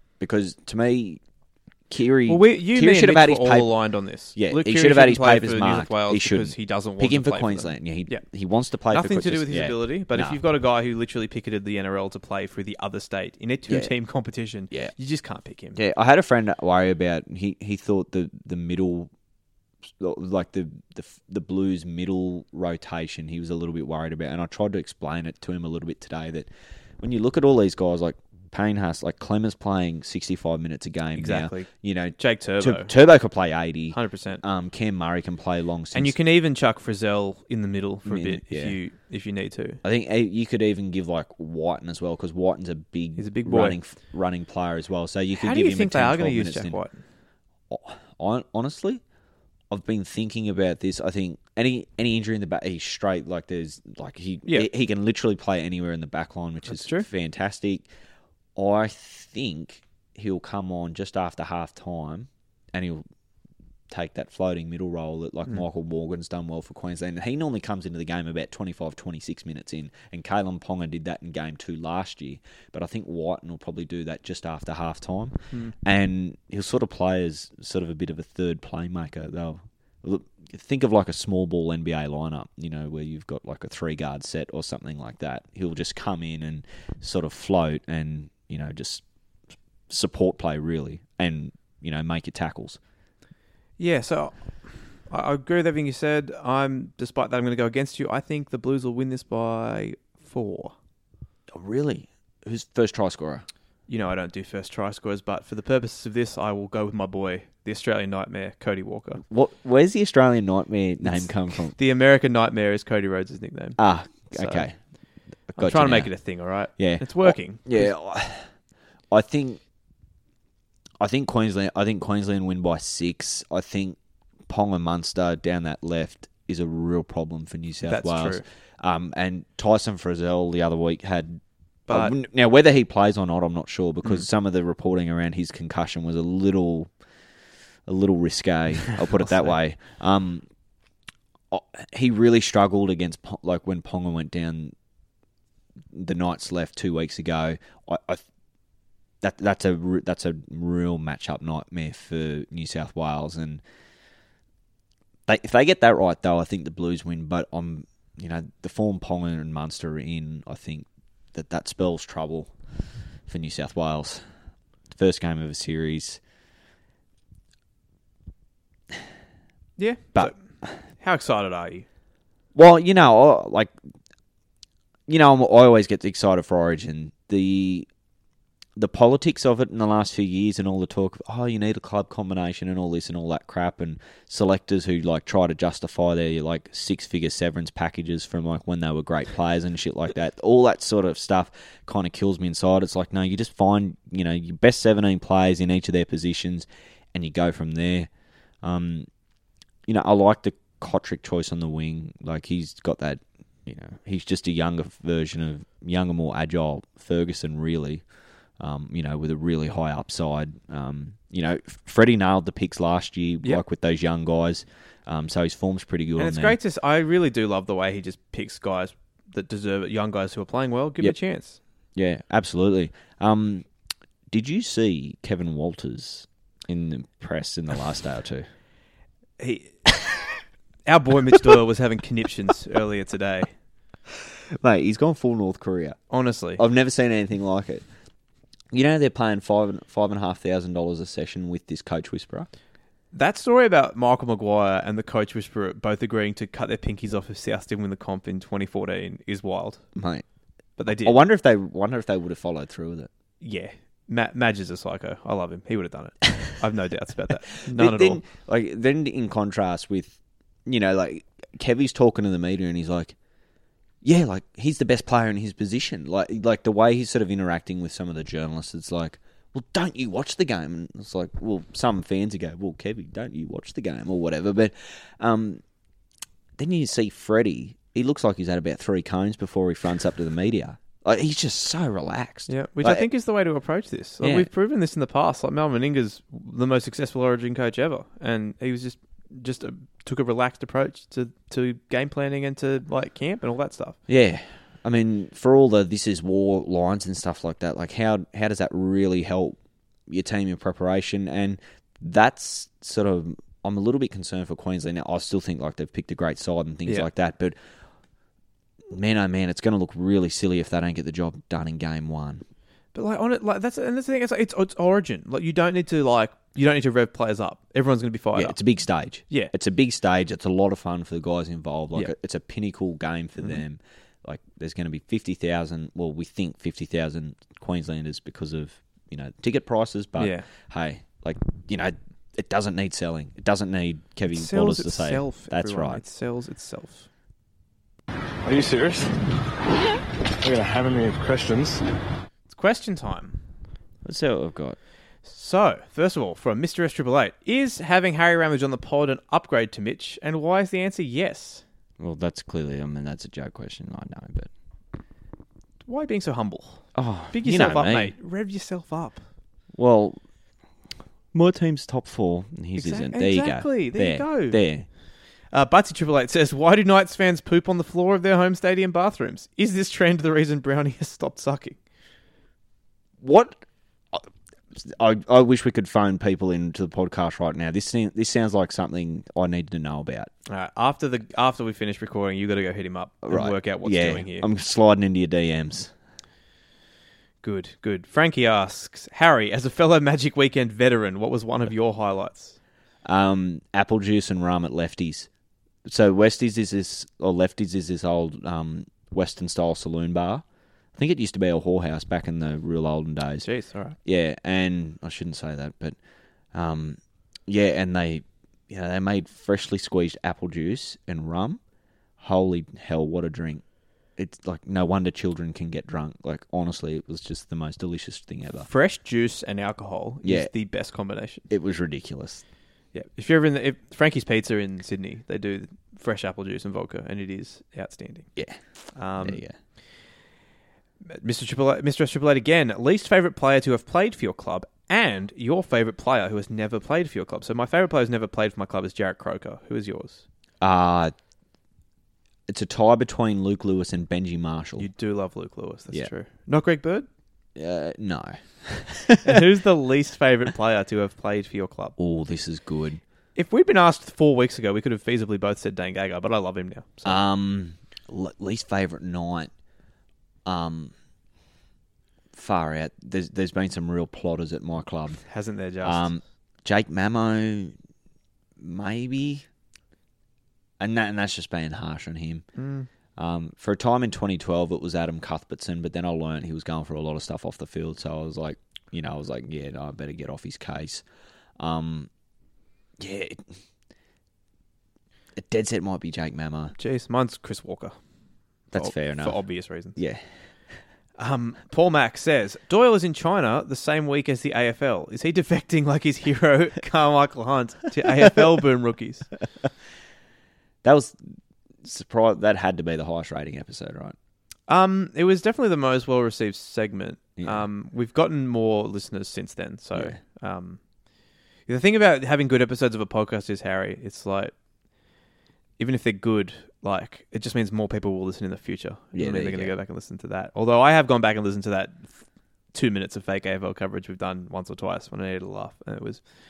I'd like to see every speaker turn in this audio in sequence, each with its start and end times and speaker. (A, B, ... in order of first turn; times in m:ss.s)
0:00.2-0:01.2 A
0:01.9-0:03.7 A
0:02.3-0:08.2 B
0:04.3-0:10.4 A
0:08.9-0:15.8 B
0:15.7-0:19.1 A
0:20.0-0:36.1 A
0:31.2-0:32.9 B
0:33.9-0:34.4 B
0:35.9-0:39.8 B
0:38.0-0:38.8 A
0:39.8-0:46.8 A
0:43.2-0:43.8 B
0:45.3-0:47.0 B
0:47.7-0:49.0 A
0:49.7-0:57.9 A
0:56.7-0:57.1 B
0:58.6-1:03.0 A
1:03.9-1:29.0 A
1:29.9-1:32.8 A
1:33.8-1:34.5 B
1:35.1-1:40.7 B
1:41.5-1:43.4 A
1:43.9-1:49.2 B
1:49.2-1:51.7 A
1:51.0-1:54.7 B
1:53.8-1:54.8 A
1:55.5-1:56.1 A
1:55.6-1:57.9 B
1:56.8-1:58.5 A
1:59.1-1:59.6 A
2:01.0-2:04.0 A
2:04.5-2:16.9 A
2:07.9-2:08.4 B
2:11.9-2:12.1 B
2:17.8-2:20.4 A
2:19.2-2:19.5 B
2:21.5-2:24.7 A
2:25.9-2:28.2 A
2:29.2-2:33.6 A
2:35.3-2:42.5 A
2:43.3-2:44.2 A
2:44.9-2:46.2 A
2:49.8-2:50.4 B
2:51.0-2:51.8 B
2:52.5-2:53.7 A
2:55.1-2:57.9 A
2:58.8-3:18.1 A
3:18.6-3:19.1 A
3:19.8-3:28.0 A
3:28.6-3:36.6 A
3:36.2-3:41.6 B
3:42.0-3:43.7 A
3:44.3-3:48.4 A
3:49.4-3:49.9 B
3:50.8-3:53.5 B
3:54.6-3:56.0 A
3:56.1-3:56.6 B
3:56.6-3:57.8 A
3:58.7-4:02.5 A
4:03.1-4:09.8 B
4:09.9-4:10.2 A
4:10.8-4:11.2 B
4:10.9-4:13.1 A
4:13.4-4:18.2 B
4:17.7-4:23.1 A
4:24.0-4:35.6 A
4:36.6-4:43.1 A
4:42.5-4:54.0 B
4:44.2-4:44.5 A
4:54.1-5:07.6 A
5:08.9-5:12.4 A
5:12.9-5:18.6 B
5:18.3-5:36.0 A
5:30.2-5:30.5 B
5:34.3-5:37.1 B
5:38.4-5:39.1 C
5:40.4-5:41.8 C
5:42.5-5:43.4 B
5:44.0-5:44.8 A
5:45.2-5:51.6 B
5:52.0-5:54.5 A
5:55.8-5:59.2 B
5:56.9-5:58.1 A
5:59.7-6:00.2 A
6:01.3-6:04.9 A
6:02.8-6:04.6 B
6:05.5-6:11.8 B
6:13.2-6:13.6 A
6:14.8-6:20.3 A
6:20.5-6:24.5 B
6:23.2-6:25.9 A
6:27.4-6:32.6 B
6:33.0-6:35.3 A
6:35.8-6:40.4 A
6:40.9-6:43.5 A
6:43.4-6:44.0 B
6:44.0-6:46.0 A
6:46.5-6:51.6 A
6:52.2-6:53.6 A
6:54.2-6:58.7 A
6:58.6-7:01.4 B
7:00.2-7:00.5 A
7:01.5-7:02.4 A
7:02.9-7:08.3 B
7:08.9-7:09.4 B
7:09.2-7:09.5 A
7:11.0-7:20.2 B
7:20.6-7:21.1 A
7:22.5-7:24.9 A
7:24.8-7:27.1 B
7:27.6-7:29.4 A
7:29.2-7:31.9 B
7:32.0-7:33.0 A
7:33.4-7:37.2 B
7:37.0-7:39.5 A
7:40.4-7:40.9 A
7:42.3-7:45.2 A
7:45.2-7:46.1 B
7:45.8-7:47.7 A
7:48.6-7:49.4 A
7:50.8-7:52.4 A
7:52.6-7:52.9 B
7:53.2-8:01.0 A
8:01.6-8:02.1 A
8:03.0-8:03.4 A
8:05.4-8:06.7 A
8:06.8-8:08.0 B
8:08.7-8:09.4 A
8:08.7-8:10.0 B
8:10.0-8:10.2 A
8:11.2-8:19.3 B
8:20.8-8:21.2 A
8:21.8-8:24.2 A
8:24.7-8:30.8 B
8:27.4-8:27.6 A
8:31.7-8:34.5 B
8:35.8-8:42.2 B
8:39.1-8:39.7 A
8:42.7-8:46.2 B